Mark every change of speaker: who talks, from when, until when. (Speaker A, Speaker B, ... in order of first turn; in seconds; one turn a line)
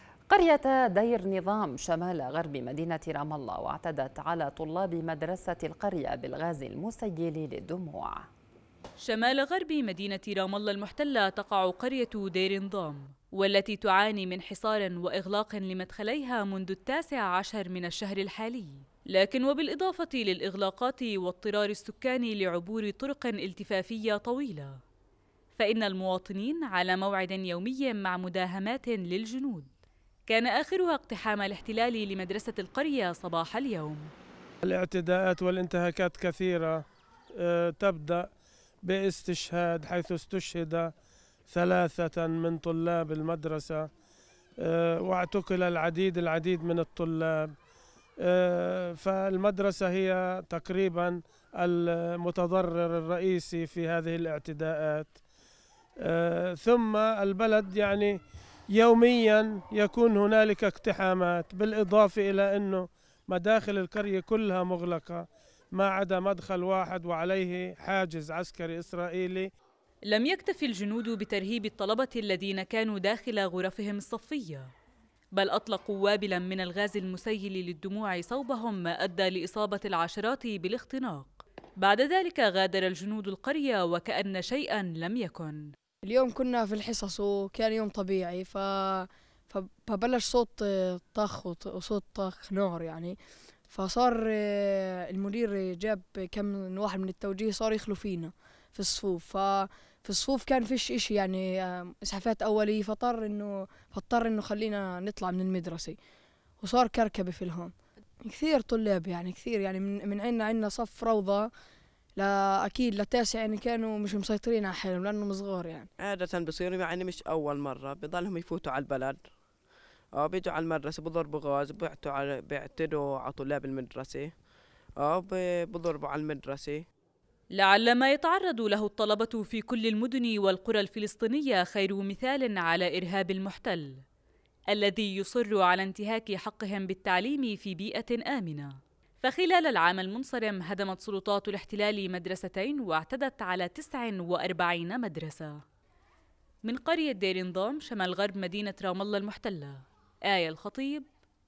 Speaker A: 0.3-8.3
Speaker B: 9.0-24.8
Speaker B: 25.5-29.7
Speaker B: 30.3-34.1
Speaker C: 34.6-36.8
Speaker C: 37.3-38.3
Speaker C: 38.8-40.9
Speaker C: 41.5-43.9
Speaker C: 44.6-47.5
Speaker C: 48.2-55.2
Speaker C: 56.0-58.2
Speaker C: 58.7-69.5
Speaker B: 70.1-74.7
Speaker B: 75.3-85.7
Speaker D: 86.0-93.2
Speaker D: 93.7-106.0
Speaker D: 106.6-111.5
Speaker D: 112.2-115.9
Speaker E: 116.0-119.3
Speaker E: 120.1-124.3
Speaker E: 125.0-126.9
Speaker B: 127.5-134.0
Speaker B: 134.7-145.6
Speaker B: 146.6-151.1